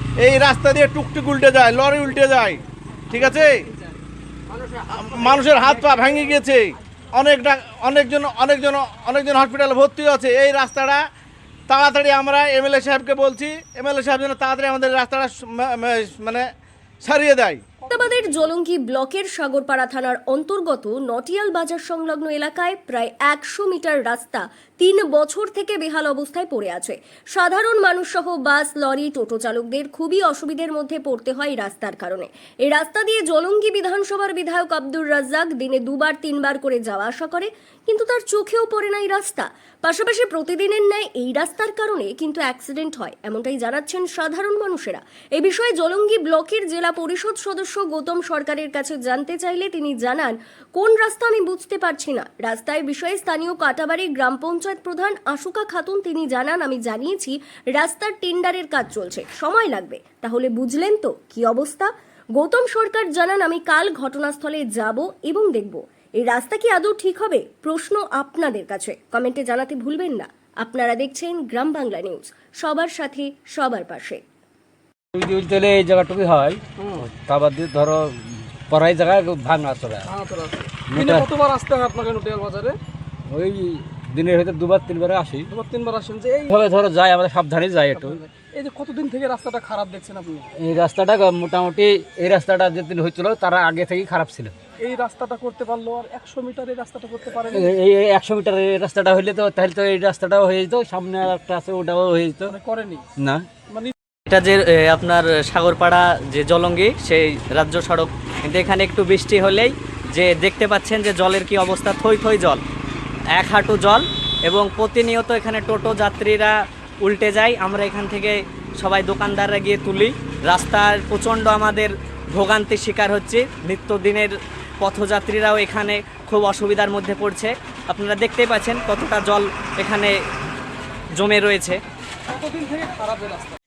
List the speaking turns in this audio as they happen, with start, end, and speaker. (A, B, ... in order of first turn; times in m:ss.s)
0:00.2-0:03.7 A
0:04.9-0:11.0 A
0:11.7-0:16.4 A
0:17.0-0:17.6 A
0:17.8-0:18.5 B
0:17.9-1:14.2 C
1:15.1-1:20.1 D
1:16.8-1:17.0 B
1:20.0-1:22.8 B
1:20.9-1:21.3 D
1:23.3-1:25.5 D
1:25.5-1:26.5 B
1:26.5-1:28.2 D
1:27.9-1:30.5 B
1:30.6-1:34.5 D
1:34.8-1:37.7 B
1:37.5-1:42.5 D
1:42.5-1:43.1 B
1:43.2-1:43.5 D
1:43.7-1:43.9 B
1:44.3-1:52.6 E
1:53.3-2:10.1 E
2:11.2-2:11.8 E
2:12.3-2:13.6 B